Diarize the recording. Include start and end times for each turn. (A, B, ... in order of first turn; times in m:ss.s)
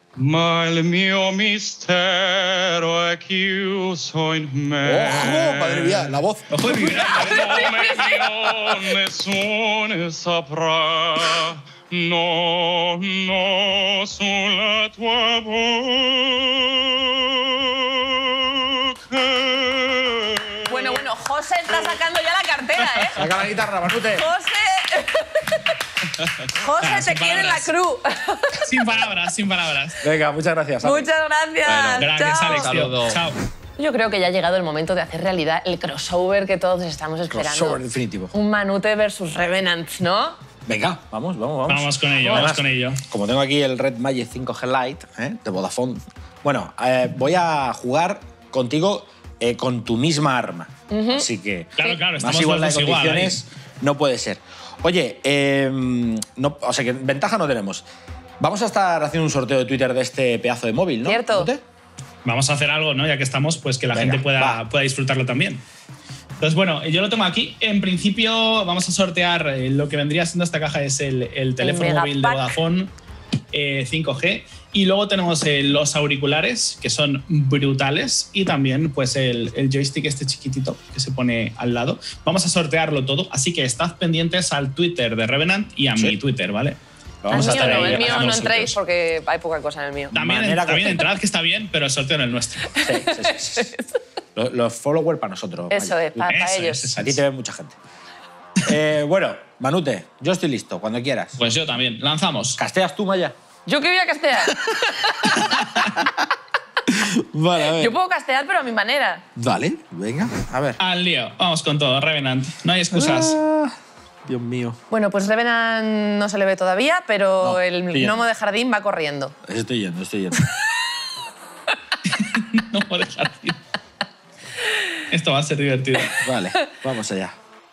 0:00.2-0:06.1 A
0:04.8-0:07.2 B
0:06.5-0:08.1 C
0:07.4-0:16.3 A
0:07.4-0:08.0 D
0:18.9-0:20.3 A
0:20.6-0:23.2 D
0:23.2-0:24.2 B
0:24.1-0:25.8 D
0:26.5-0:28.7 D
0:26.8-0:27.7 C
0:28.6-0:30.0 C
0:30.0-0:31.1 B
0:30.8-0:32.7 D
0:31.6-0:33.2 A
0:32.0-0:33.4 C
0:33.8-0:40.4 D
0:37.3-0:38.3 B
0:40.6-0:57.8 B
0:41.7-0:43.0 C
0:50.9-0:51.2 D
0:51.8-0:53.4 C
0:58.4-1:01.6 B
1:01.0-1:01.5 D
1:02.2-1:05.6 C
1:03.9-1:04.6 B
1:06.4-1:12.9 C
1:11.6-1:12.5 D
1:13.5-1:28.7 C
1:27.2-1:28.5 B
1:27.3-1:30.1 D
1:30.1-1:31.0 B
1:30.1-1:32.7 C
1:32.8-1:33.8 D
1:32.8-1:33.7 B
1:34.4-1:36.3 B
1:35.7-1:36.9 D
1:36.3-1:37.2 C
1:37.0-1:37.8 B
1:38.6-1:41.4 B
1:41.4-1:42.6 C
1:42.6-1:43.3 B
1:43.6-1:45.4 D
1:46.9-1:47.9 B
1:47.6-1:49.2 D
1:49.4-1:50.8 B
1:50.8-1:53.4 C
1:52.9-1:53.8 B
1:54.3-1:54.8 B
1:54.9-1:59.3 D
1:57.4-1:58.2 B
1:59.5-2:00.4 B
2:02.0-2:03.6 C
2:05.1-2:06.2 C
2:06.2-2:07.3 B